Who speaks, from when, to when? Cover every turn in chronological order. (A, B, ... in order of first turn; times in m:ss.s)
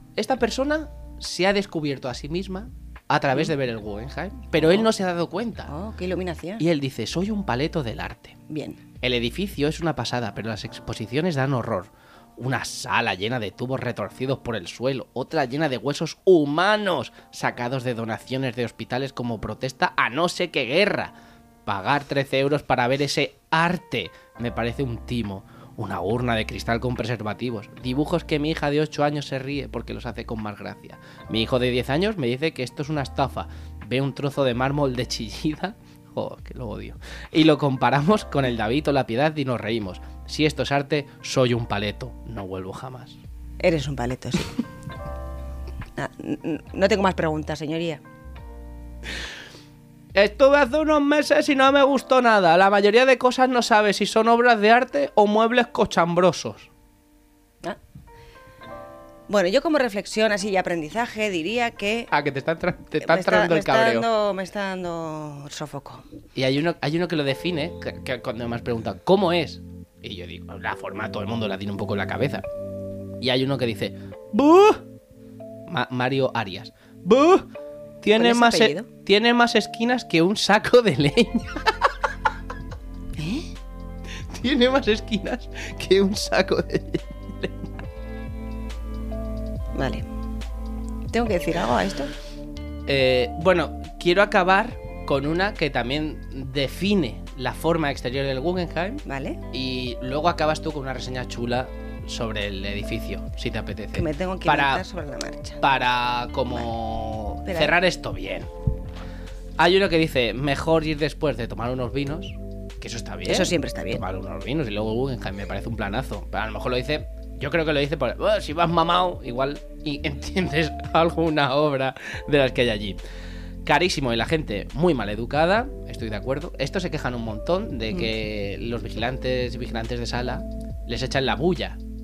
0:00.2-0:05.7 A
0:04.6-0:04.9 B
0:05.7-0:06.6 B
0:06.6-0:08.4 A
0:08.5-0:08.8 B
0:09.0-0:21.1 A
0:21.6-0:43.2 A
0:43.6-0:44.6 B
0:46.0-0:48.0 B
0:50.1-0:56.7 A
0:59.3-1:02.1 B
1:02.1-1:04.1 A
1:03.0-1:06.0 B
1:06.4-1:12.4 A
1:13.2-1:14.8 A
1:15.7-1:17.5 A
1:18.0-1:21.7 A
1:18.1-1:18.9 B
1:23.2-1:23.5 B
1:24.3-1:27.7 A
1:29.7-1:30.1 B
1:31.1-1:32.1 B
1:32.9-1:44.8 A
1:39.0-1:39.4 B
1:43.9-1:45.6 B
1:45.6-1:48.5 A
1:47.4-1:47.8 B
1:49.6-2:03.0 A
1:53.3-1:54.0 B
2:03.6-2:11.8 A